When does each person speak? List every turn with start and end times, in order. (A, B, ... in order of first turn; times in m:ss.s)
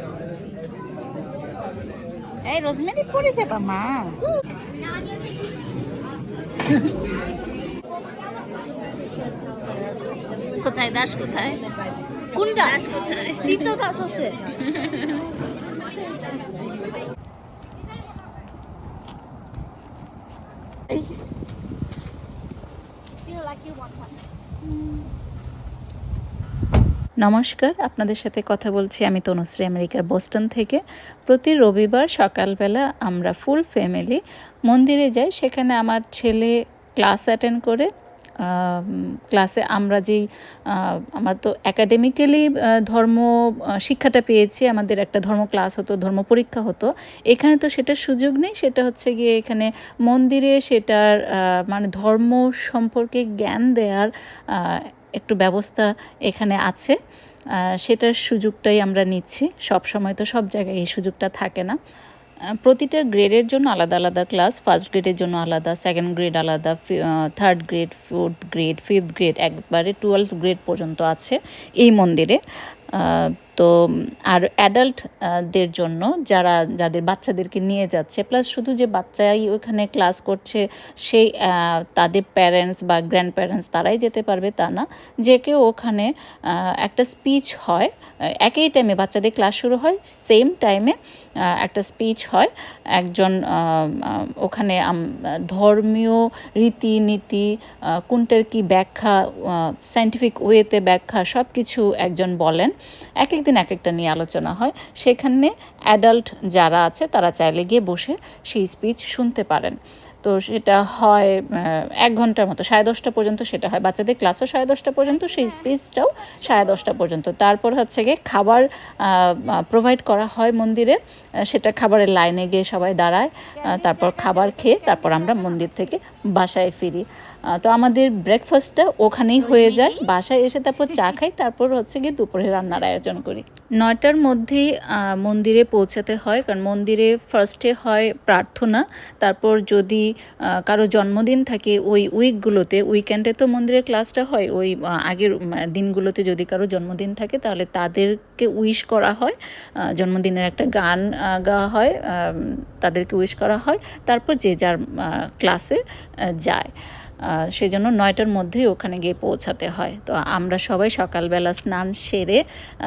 0:02.4-0:04.2 A
0:04.9-0:05.4 B
0:08.2-0:10.0 B
0:10.6-0:11.6 A
0:12.4-0:14.7 B
0:12.5-0:13.7 A
0:15.9-0:16.4 B
0:23.2-0:24.2 B
0:27.2-0:37.9 C
0:38.4-0:43.3 C
0:43.8-0:51.2 C
0:51.7-0:57.0 C
0:57.8-1:01.8 C
1:02.6-1:12.4 C
1:13.0-1:13.7 C
1:14.3-1:27.9 C
1:28.4-1:31.0 C
1:31.6-2:20.0 C
1:55.1-1:55.7 B
1:56.3-1:56.8 B
2:03.6-2:05.7 B
2:09.4-2:10.1 A
2:10.9-2:11.2 A
2:20.6-2:29.4 C
2:30.0-2:35.8 C
2:36.4-2:36.7 C
2:37.6-2:42.4 C